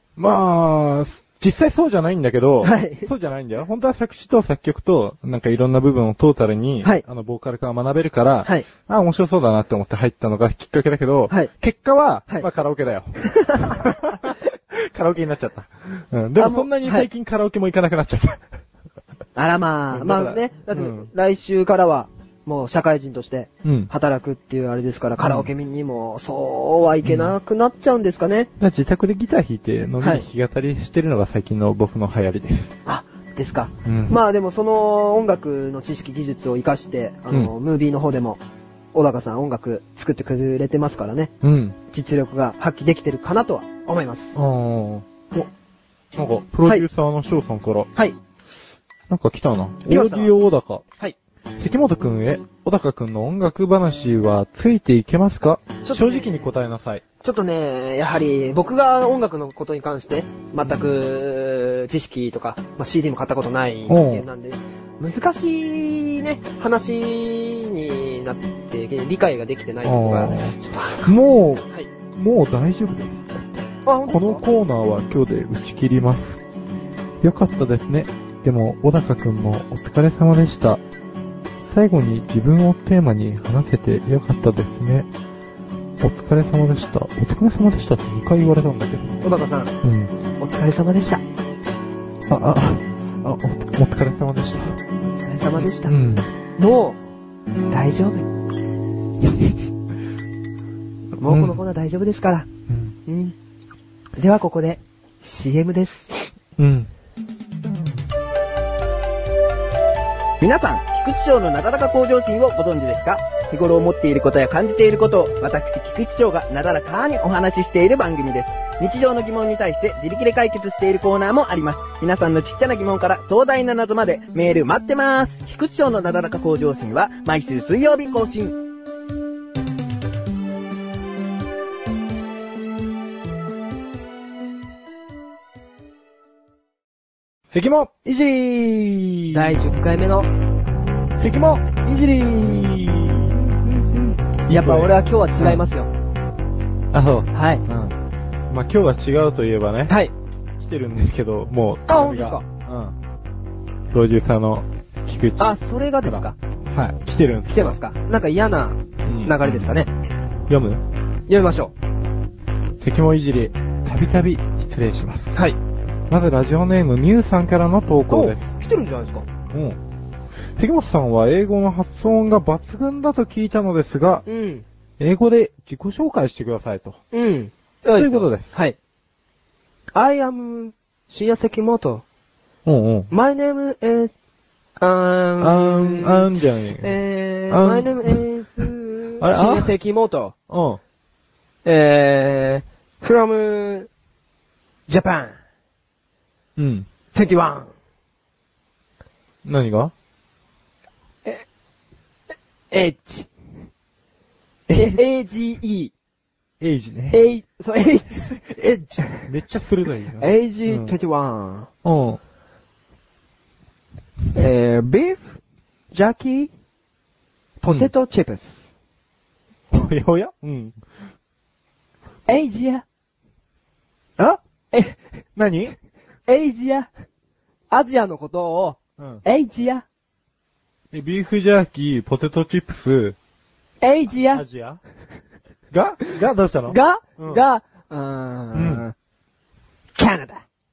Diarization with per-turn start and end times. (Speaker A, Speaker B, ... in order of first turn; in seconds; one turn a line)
Speaker A: 0.2-18.4
Speaker B: 2.6-3.1
Speaker B: 13.2-13.8
Speaker B: 16.4-17.1
Speaker B: 19.4-28.5
Speaker A: 19.9-21.1
Speaker A: 23.6-23.9
Speaker A: 25.2-25.5
Speaker A: 27.0-27.4
Speaker A: 28.6-32.7
Speaker B: 32.9-38.4
Speaker A: 33.9-34.2
Speaker B: 38.9-41.3
Speaker A: 41.4-41.8
Speaker B: 41.9-44.4
Speaker A: 44.4-45.0
Speaker A: 46.1-47.9
Speaker A: 49.1-50.8
Speaker B: 49.9-50.3
Speaker A: 51.6-57.0
Speaker B: 55.8-56.3
Speaker B: 57.2-71.9
Speaker A: 60.6-60.9
Speaker A: 63.9-64.2
Speaker A: 69.8-73.5
Speaker B: 73.8-74.4
Speaker A: 74.1-76.4
Speaker A: 77.2-80.8
Speaker A: 81.7-85.1
Speaker A: 86.0-89.2
Speaker B: 89.2-89.7
Speaker A: 89.8-90.2
Speaker B: 90.4-91.2
Speaker A: 92.3-94.8
Speaker B: 95.2-96.0
Speaker A: 95.6-96.3
Speaker B: 96.6-97.0
Speaker B: 97.7-98.3
Speaker A: 99.2-99.5
Speaker B: 101.2-102.5
Speaker A: 101.2-101.6
Speaker A: 102.7-103.0
Speaker B: 103.1-103.3
Speaker B: 104.2-106.3
Speaker A: 106.6-106.9
Speaker C: 110.4-128.6
Speaker A: 137.5-139.6
Speaker B: 139.3-140.3
Speaker A: 141.2-145.6
Speaker B: 144.5-145.9
Speaker A: 146.9-148.0
Speaker B: 147.3-147.6
Speaker A: 148.5-150.0
Speaker A: 150.6-152.9
Speaker B: 151.9-152.4
Speaker A: 153.9-157.8
Speaker B: 155.4-156.4
Speaker B: 157.5-159.9
Speaker A: 159.1-159.5
Speaker A: 160.5-160.8
Speaker B: 161.3-161.7
Speaker A: 162.8-165.4
Speaker A: 166.1-168.4
Speaker B: 168.1-169.3
Speaker A: 169.5-169.8
Speaker A: 170.6-174.2
Speaker B: 174.3-174.7
Speaker A: 175.0-177.0
Speaker B: 177.1-178.8
Speaker A: 177.9-178.5
Speaker B: 179.9-182.0
Speaker A: 182.7-183.1
Speaker B: 183.1-184.1
Speaker B: 184.8-190.3
Speaker A: 185.4-187.0
Speaker A: 187.5-188.2
Speaker A: 189.2-189.7
Speaker A: 190.5-190.8
Speaker B: 191.7-193.9
Speaker B: 194.9-195.3
Speaker A: 196.6-196.9
Speaker B: 197.1-197.7
Speaker A: 199.4-199.9
Speaker B: 202.7-203.3
Speaker A: 204.7-205.0
Speaker B: 204.7-205.9
Speaker A: 206.6-207.3
Speaker B: 207.1-208.4
Speaker A: 208.3-210.9
Speaker B: 210.2-211.7
Speaker A: 211.8-212.2
Speaker B: 214.3-215.4
Speaker B: 215.9-216.5
Speaker B: 217.6-218.6
Speaker A: 219.7-220.8
Speaker B: 222.3-222.8
Speaker B: 224.2-225.0
Speaker A: 225.4-225.8
Speaker B: 226.3-226.9
Speaker B: 227.7-229.8
Speaker A: 229.0-229.2
Speaker A: 230.9-233.2
Speaker B: 233.8-234.4
Speaker A: 234.2-234.8
Speaker A: 235.7-237.4
Speaker B: 236.7-238.9
Speaker A: 238.5-238.9
Speaker B: 240.0-240.4